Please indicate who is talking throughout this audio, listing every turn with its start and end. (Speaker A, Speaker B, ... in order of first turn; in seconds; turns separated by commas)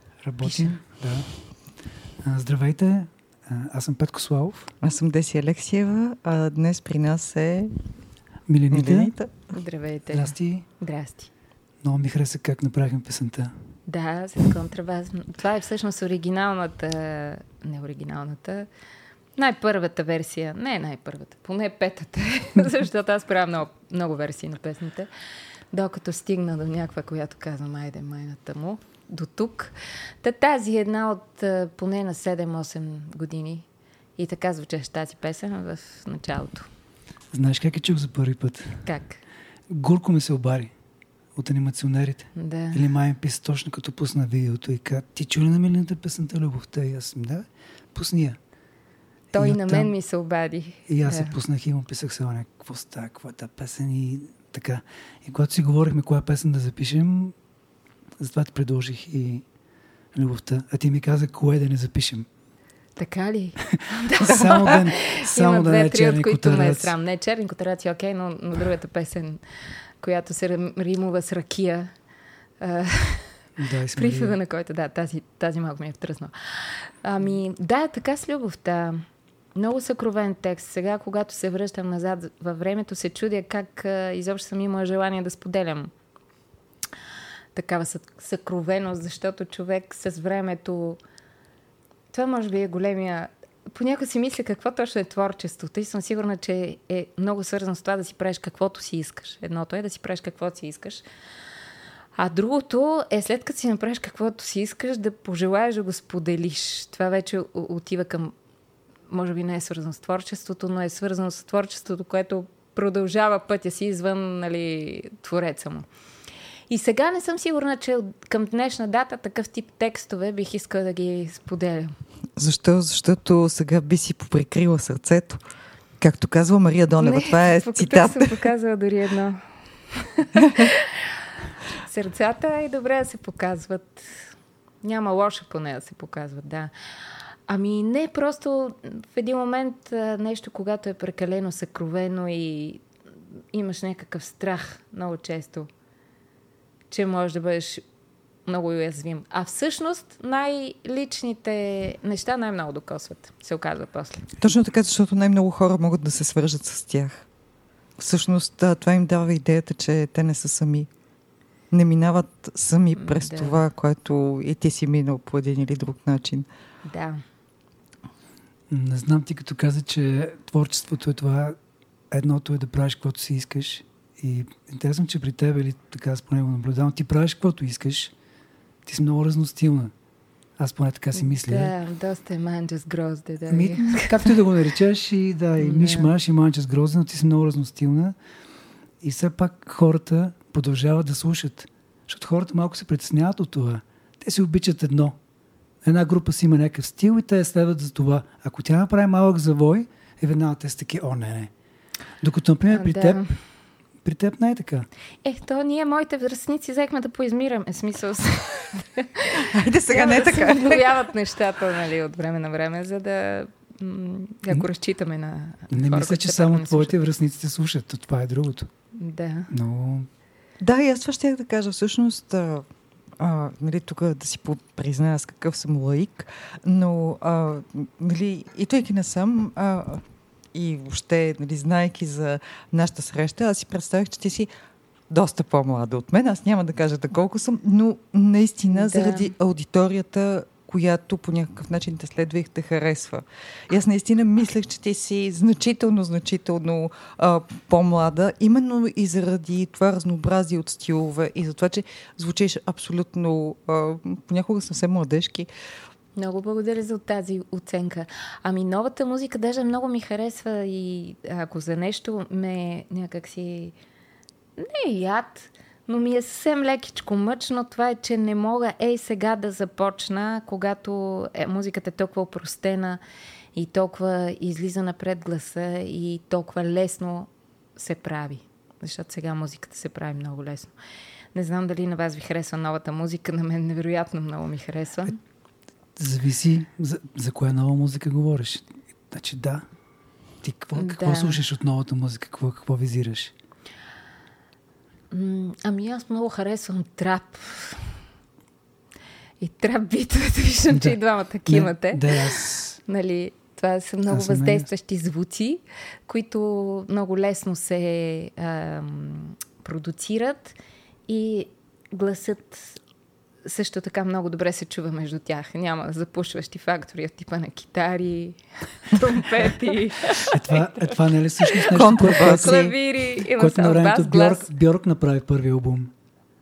Speaker A: 0.2-1.3, Speaker B: 0.4-0.7, Speaker A: 2.2-4.7, Speaker C: 4.8-7.7, Speaker A: 8.5-9.1, Speaker C: 8.7-9.3, Speaker B: 9.5-11.3, Speaker A: 10.1-10.7, Speaker A: 11.8-13.5, Speaker B: 13.9-18.7, Speaker B: 19.4-25.1, Speaker B: 25.7-33.6, Speaker B: 34.2-36.7, Speaker A: 37.3-38.8, Speaker B: 38.9-39.2, Speaker A: 39.7-40.7, Speaker A: 41.4-48.4, Speaker B: 42.4-42.8, Speaker B: 49.3-51.3, Speaker A: 49.3-49.9, Speaker A: 50.9-57.3, Speaker A: 58.2-59.4, Speaker A: 60.1-62.2, Speaker B: 63.0-69.4, Speaker A: 64.2-66.9, Speaker C: 64.2-64.8, Speaker B: 70.0-71.9, Speaker B: 72.6-73.4, Speaker A: 73.6-74.4, Speaker B: 73.9-79.0, Speaker B: 79.5-85.9, Speaker B: 87.5-91.0, Speaker B: 92.1-101.0, Speaker B: 102.2-108.3, Speaker B: 109.1-115.9, Speaker B: 116.7-121.9, Speaker C: 122.4-125.4, Speaker C: 126.0-128.4, Speaker B: 127.0-131.2, Speaker B: 131.8-134.2, Speaker B: 134.8-136.7, Speaker B: 137.5-142.8, Speaker B: 143.5-145.7, Speaker B: 146.9-147.8, Speaker B: 148.4-154.3, Speaker C: 154.4-157.3, Speaker C: 158.0-160.9, Speaker C: 161.7-166.5, Speaker B: 162.9-163.6, Speaker B: 166.8-167.2, Speaker A: 168.7-171.6, Speaker A: 172.1-178.1, Speaker A: 178.8-179.9, Speaker A: 180.6-181.7, Speaker B: 181.1-184.3, Speaker A: 183.5-188.1, Speaker B: 185.6-186.1, Speaker A: 189.0-195.2, Speaker A: 195.8-201.5, Speaker A: 202.2-203.2, Speaker B: 202.7-203.3, Speaker A: 204.0-204.8, Speaker B: 205.2-217.0, Speaker C: 209.4-211.0, Speaker A: 215.7-218.7, Speaker B: 219.0-219.5, Speaker A: 219.5-220.1, Speaker C: 220.6-222.7, Speaker C: 223.2-230.0, Speaker C: 230.5-234.5, Speaker C: 235.1-255.5, Speaker B: 238.7-239.3, Speaker B: 256.1-263.7, Speaker B: 264.6-273.0, Speaker B: 273.5-280.7, Speaker B: 281.3-285.2, Speaker A: 286.0-289.6, Speaker A: 290.4-293.3, Speaker B: 290.7-291.4, Speaker B: 295.1-297.8, Speaker B: 299.4-310.5, Speaker A: 300.7-302.8, Speaker A: 304.1-304.7, Speaker B: 311.1-312.8, Speaker B: 313.4-324.5, Speaker A: 320.3-325.9, Speaker C: 321.7-322.6